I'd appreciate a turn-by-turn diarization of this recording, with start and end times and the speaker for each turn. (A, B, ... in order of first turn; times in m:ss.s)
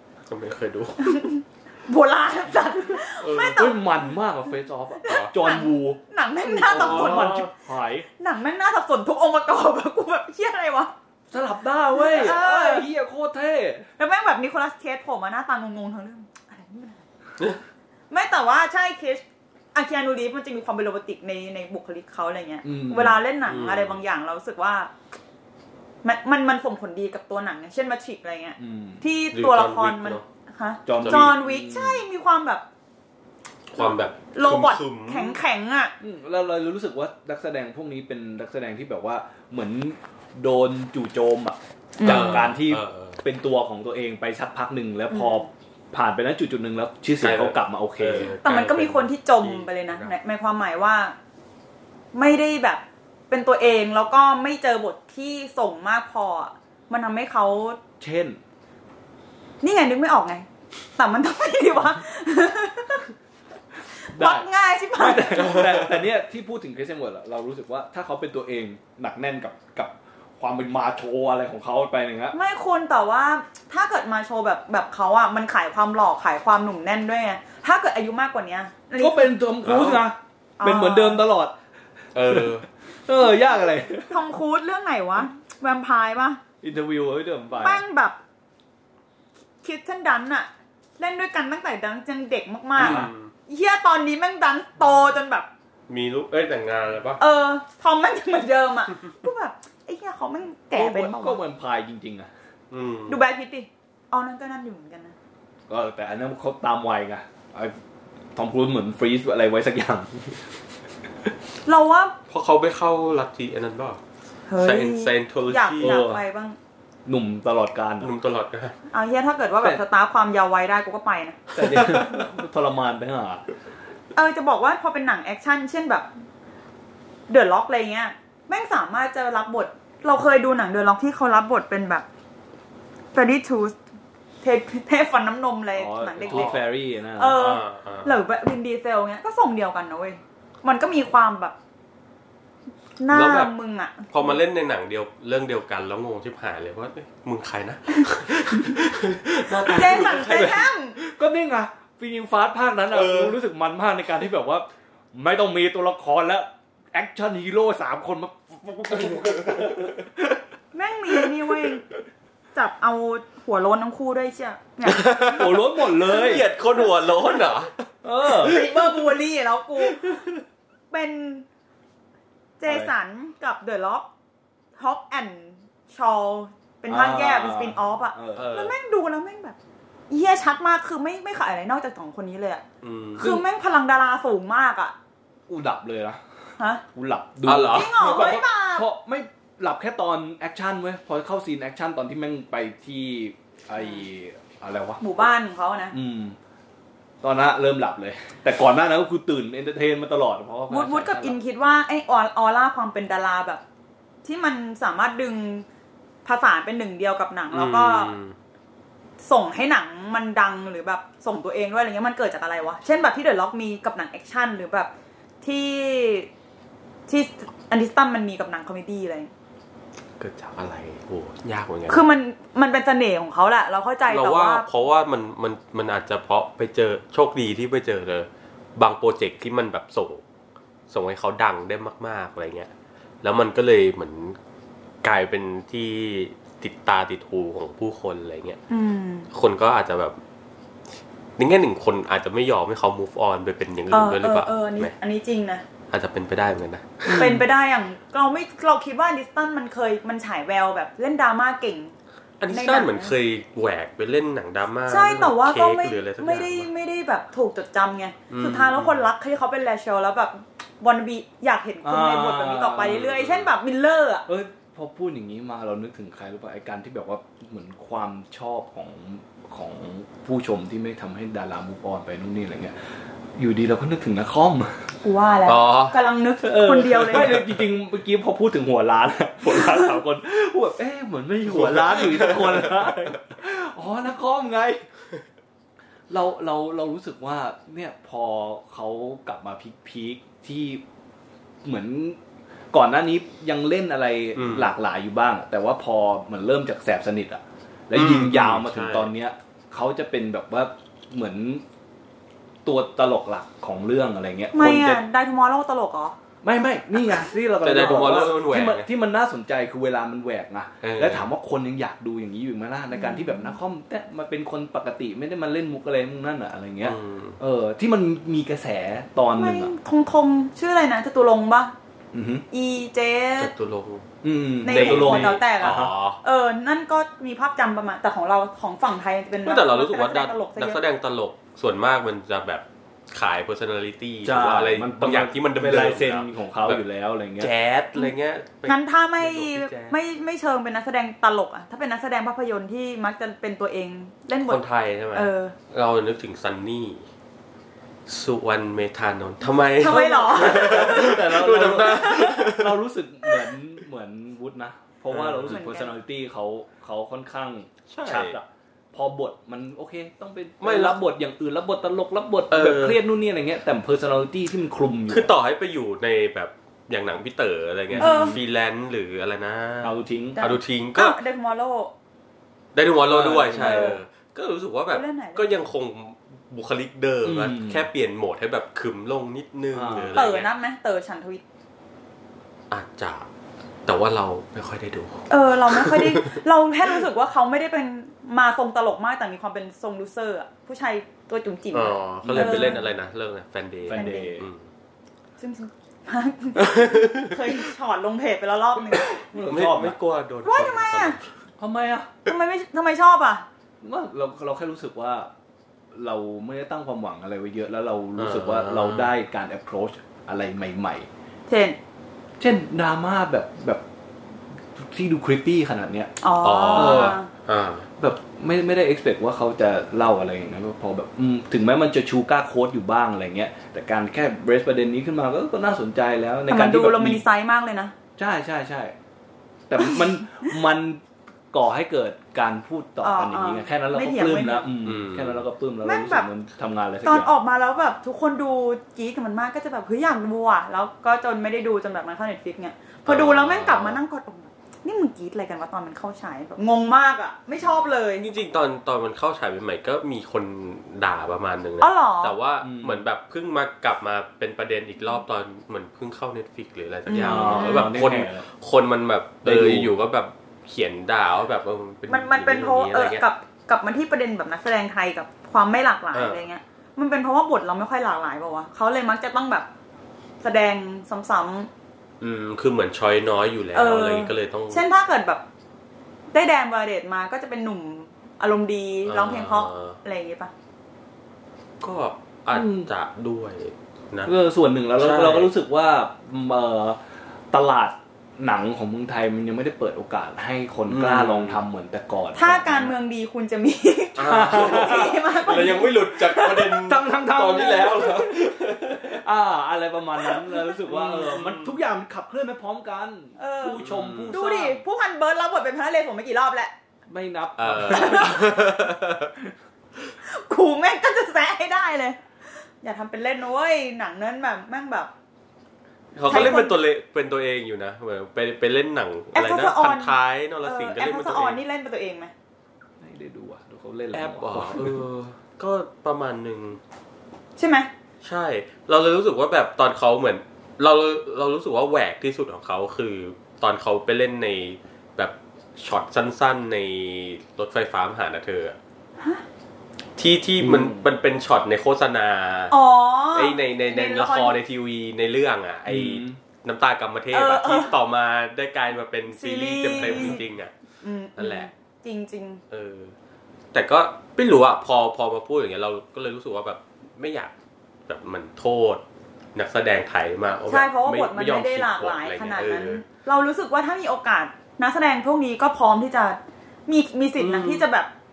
0:00.3-0:01.3 A
0:01.0-0:03.8 B
0:03.2-0:03.7 A
0:03.3-0:08.1 C
0:05.0-0:07.5 B
0:06.6-0:07.5 A
0:08.2-0:10.9 B
0:11.3-0:13.9 C
0:11.9-0:12.9 B
0:14.0-0:17.0 B
0:18.1-0:24.9 B
0:22.6-0:23.2 C
0:23.5-0:24.0 A
0:26.0-0:32.6 B
0:28.6-0:29.0 C
0:29.3-0:30.2 A
0:30.8-0:32.0 C
0:31.0-0:31.3 A
0:33.7-0:35.4 A
0:33.8-0:35.9 B
0:36.0-0:48.4 C
0:42.0-0:42.5 B
0:42.0-0:43.2 A
0:45.1-0:45.5 B
0:47.2-0:50.1 A
0:48.4-0:51.2 B
0:52.1-0:57.8 B
0:58.0-0:58.4 C
0:59.6-1:00.4 B
1:01.0-1:03.1 B
1:04.0-1:05.7 B
1:04.1-1:12.3 C
1:12.3-1:19.3 B
1:19.0-1:21.6 C
1:19.6-1:20.0 A
1:20.6-1:21.2 B
1:22.1-1:22.7 A
1:22.2-1:24.2 C
1:24.1-1:26.4 B
1:26.6-1:27.8 C
1:27.5-1:28.2 B
1:29.6-1:35.5 B
1:32.8-1:33.3 A
1:32.8-1:33.1 C
1:35.9-1:37.2 A
1:37.2-1:41.4 B
1:40.7-1:42.3 C
1:42.7-1:43.2 A
1:43.1-1:45.2 B
1:45.7-1:47.8 C
1:48.3-1:50.4 C
1:51.6-1:52.1 B
1:52.3-1:54.0 A
1:54.5-1:56.6 B
1:54.6-1:56.1 A
1:55.8-1:56.2 C
1:57.0-1:58.1 C
1:58.0-1:58.7 A
1:58.9-2:01.4 B
2:01.5-2:03.4 C
2:01.6-2:02.1 A
2:04.1-2:06.1 B
2:07.3-2:12.0 B
2:13.1-2:13.8 B
2:14.4-2:21.5 B
2:15.7-2:17.4 C
2:16.2-2:16.6 A
2:17.3-2:18.2 A
2:23.0-2:24.4 B
2:23.1-2:23.5 A
2:24.1-2:30.7 A
2:29.5-2:31.0 B
2:29.8-2:30.5 C
2:31.0-2:40.4 C
2:32.9-2:33.4 A
2:39.0-2:39.7 A
2:40.7-2:41.8 B
2:41.1-2:41.6 C
2:42.5-2:45.2 B
2:44.8-2:47.7 A
2:45.3-2:46.5 C
2:48.0-2:48.6 C
2:48.4-2:50.2 B
2:48.4-2:48.8 A
2:50.9-2:51.4 B
2:52.6-2:54.1 B
2:52.6-2:52.9 C
2:54.8-2:59.6 B
2:56.9-2:58.5 C
2:58.3-2:58.7 A
3:00.1-3:02.6 B
3:02.8-3:03.3 A
3:03.2-3:04.9 B
3:03.2-3:03.4 C
3:05.5-3:06.2 C
3:06.9-3:15.0 C
3:07.4-3:08.3 A
3:07.7-3:08.9 B
3:15.0-3:15.9 B
3:15.9-3:16.4 C
3:17.2-3:21.4 C
3:20.7-3:23.6 B
3:24.2-3:25.6 B
3:26.2-3:28.1 B
3:27.5-3:28.4 A
3:29.2-3:36.3 B
3:37.1-3:39.3 B
3:40.2-3:42.0 A
3:41.9-3:44.7 B
3:44.1-3:50.2 A
3:50.9-3:52.7 A
3:53.2-3:54.4 A
3:55.0-3:58.6 A
3:58.7-3:59.3 B
3:59.3-4:00.2 A
4:01.4-4:04.9 A
4:03.9-4:05.6 B
4:05.9-4:07.4 A
4:07.0-4:07.4 C
4:07.1-4:12.0 B
4:12.4-4:16.7 A
4:12.5-4:13.1 B
4:14.9-4:24.3 B
4:18.3-4:19.0 A
4:21.8-4:23.1 C
4:22.8-4:23.5 A
4:24.3-4:34.9 C
4:35.0-4:37.4 B
4:35.4-4:36.0 A
4:36.4-4:44.8 C
4:39.4-4:39.9 B
4:41.5-4:42.9 A
4:46.1-4:50.8 C
4:51.6-4:52.2 C
4:52.7-5:01.6 C
4:54.4-4:54.7 A
4:57.9-4:59.1 A
5:02.6-5:05.0 C
5:04.5-5:06.2 B
5:06.4-5:19.7 C
5:07.6-5:08.9 A
5:10.8-5:11.3 A
5:12.9-5:13.6 B
5:16.8-5:17.4 A
5:19.3-5:21.7 B
5:22.1-5:22.4 C
5:22.5-5:23.5 B
5:23.4-5:24.1 A
5:24.2-5:25.9 C
5:24.6-5:30.8 B
5:24.7-5:26.2 A
5:29.4-5:36.8 A
5:34.2-5:37.5 C
5:37.4-5:40.0 A
5:38.6-5:44.6 B
5:44.4-5:47.0 A
5:45.1-5:45.5 B
5:48.1-5:52.8 A
5:49.8-5:52.3 B
5:49.8-6:05.3 C
5:55.1-5:55.6 A
5:55.5-5:56.0 B
5:57.9-5:58.4 A
6:00.6-6:01.0 A
6:02.5-6:03.0 A
6:05.1-6:11.2 A
6:07.9-6:08.4 C
6:08.0-6:08.4 B
6:09.8-6:10.4 C
6:10.4-6:11.9 B
6:12.7-6:20.5 A
6:13.0-6:14.0 C
6:13.5-6:14.0 B
6:14.9-6:15.6 B
6:17.2-6:17.9 C
6:19.7-6:20.2 C
6:20.1-6:21.4 B
6:22.7-6:23.2 A
6:23.8-6:26.4 A
6:25.3-6:32.9 B
6:31.7-6:34.6 A
6:32.2-6:32.8 C
6:33.8-6:34.5 C
6:33.9-6:34.3 B
6:35.4-6:39.2 B
6:36.6-6:37.3 A
6:39.0-6:40.0 C
6:39.4-6:41.2 A
6:40.4-6:41.2 B
6:41.6-6:42.1 C
6:42.2-6:43.4 B
6:43.8-6:45.3 C
6:45.9-6:51.1 C
6:48.2-6:49.1 A
6:51.5-6:51.8 B
6:52.4-6:53.8 C
6:54.7-6:56.1 C
6:56.2-6:57.3 B
6:56.4-6:57.9 A
6:56.7-6:57.2 C
6:58.0-7:07.2 C
7:06.5-7:07.9 B
7:08.2-7:08.9 C
7:09.7-7:17.3 C
7:13.0-7:14.7 B
7:14.8-7:15.4 A
7:15.8-7:16.3 B
7:17.0-7:28.3 B
7:23.0-7:24.0 A
7:28.2-7:43.2 A
7:31.8-7:32.4 B
7:32.6-7:33.0 C
7:37.1-7:37.9 B
7:37.2-7:38.4 C
7:39.4-7:39.9 C
7:42.1-7:49.7 B
7:46.1-7:46.4 A
7:50.4-7:51.7 B
7:52.2-7:54.8 A
7:53.7-7:55.4 B
7:56.3-8:00.5 B
7:59.0-8:00.0 A
8:01.8-8:04.3 A
8:02.5-8:02.9 C
8:04.2-8:07.0 C
8:05.0-8:05.5 A
8:07.5-8:12.9 C
8:10.9-8:11.6 A
8:12.3-8:16.8 B
8:14.2-8:19.1 A
8:14.2-8:15.2 C
8:16.7-8:24.8 C
8:20.5-8:20.7 B
8:20.8-8:21.8 A
8:23.4-8:26.7 B
8:23.8-8:24.4 A
8:27.1-8:28.9 C
8:27.6-8:29.3 A
8:27.9-8:28.4 B
8:30.2-8:32.2 B
8:32.8-8:35.1 B
8:36.2-8:41.6 A
8:36.3-8:36.8 B
8:39.3-8:42.3 B
8:43.0-8:45.0 C
8:44.1-8:46.8 A
8:47.6-8:47.9 B
8:48.2-8:58.8 A
8:59.2-8:59.4 B
9:00.2-9:02.8 A
9:00.6-9:01.1 C
9:02.7-9:04.6 B
9:03.3-9:10.7 A
9:05.9-9:06.4 C
9:07.3-9:07.9 B
9:09.3-9:10.4 B
9:09.9-9:10.4 C
9:11.0-9:12.6 B
9:11.4-9:11.7 A
9:12.7-9:13.1 A
9:13.7-9:17.5 A
9:18.1-9:19.0 A
9:19.5-9:23.0 A
9:20.7-9:28.1 B
9:27.4-9:27.9 A